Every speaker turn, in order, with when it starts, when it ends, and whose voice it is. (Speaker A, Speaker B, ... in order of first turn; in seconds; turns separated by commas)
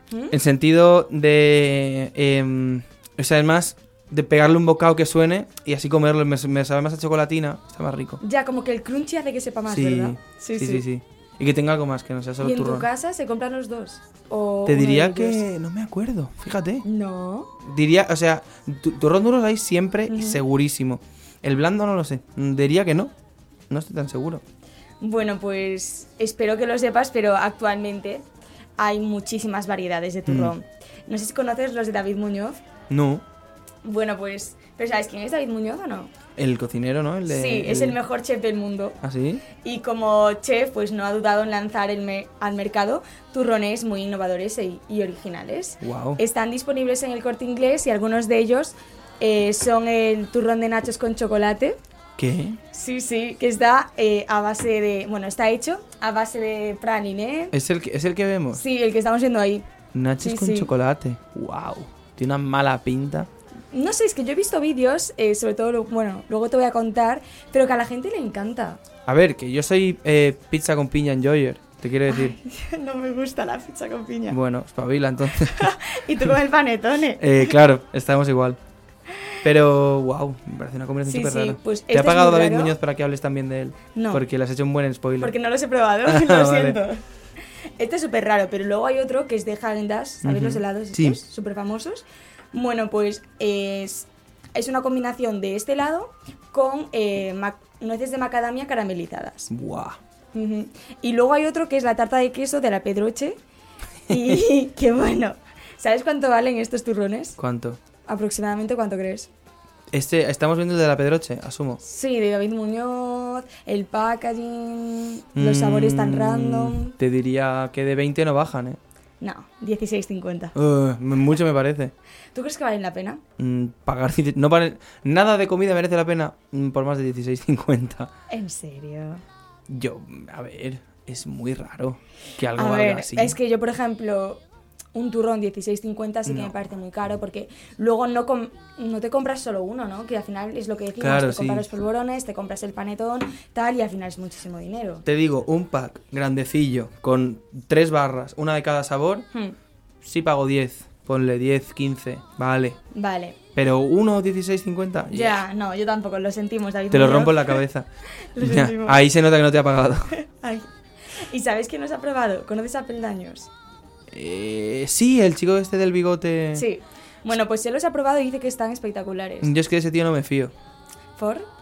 Speaker A: 0.1-0.4, Speaker B: 0.3-8.2, Speaker A: 8.2-10.8, Speaker B: 9.7-12.9, Speaker A: 12.4-15.4, Speaker B: 14.7-16.9, Speaker A: 16.8-17.5, Speaker B: 17.6-23.1, Speaker A: 20.1-20.4, Speaker B: 23.7-24.4, Speaker A: 25.0-28.3, Speaker A: 28.8-32.6, Speaker B: 30.3-30.6, Speaker B: 32.9-33.2, Speaker A: 33.8-36.1, Speaker B: 36.4-38.0, Speaker A: 37.3-39.0, Speaker B: 39.0-39.4, Speaker A: 39.6-51.8, Speaker B: 45.8-46.2, Speaker B: 52.2-52.6, Speaker A: 52.7-57.5, Speaker B: 57.5-58.6, Speaker A: 58.5-59.7, Speaker B: 59.9-63.3, Speaker A: 60.2-60.7, Speaker A: 63.7-68.8, Speaker B: 69.1-72.4, Speaker A: 72.1-74.4, Speaker B: 74.3-75.7, Speaker A: 75.5-77.5, Speaker B: 77.2-78.6, Speaker B: 79.4-85.3, Speaker A: 81.0-82.8, Speaker A: 84.0-84.2, Speaker A: 85.2-87.0, Speaker B: 86.0-86.8, Speaker A: 87.8-99.5, Speaker B: 90.2-91.2, Speaker B: 99.5-100.0, Speaker A: 100.3-103.4, Speaker A: 104.1-107.4, Speaker B: 107.4-107.8, Speaker A: 108.1-109.3, Speaker B: 109.9-111.8, Speaker A: 111.8-117.0, Speaker B: 115.3-118.8, Speaker A: 119.2-120.5, Speaker B: 120.5-121.9, Speaker A: 122.3-123.2, Speaker B: 123.4-128.1, Speaker A: 128.3-129.2, Speaker B: 129.7-133.4, Speaker A: 132.5-134.4, Speaker A: 134.9-145.1, Speaker B: 136.3-136.5, Speaker B: 141.0-141.7, Speaker B: 145.1-149.3, Speaker B: 150.0-152.8, Speaker A: 152.9-153.4, Speaker B: 153.6-155.4, Speaker A: 155.1-157.6, Speaker B: 156.9-160.1, Speaker A: 158.3-159.0, Speaker A: 160.1-163.5, Speaker B: 164.1-166.7, Speaker A: 166.5-169.5, Speaker B: 169.4-170.5, Speaker A: 171.2-171.5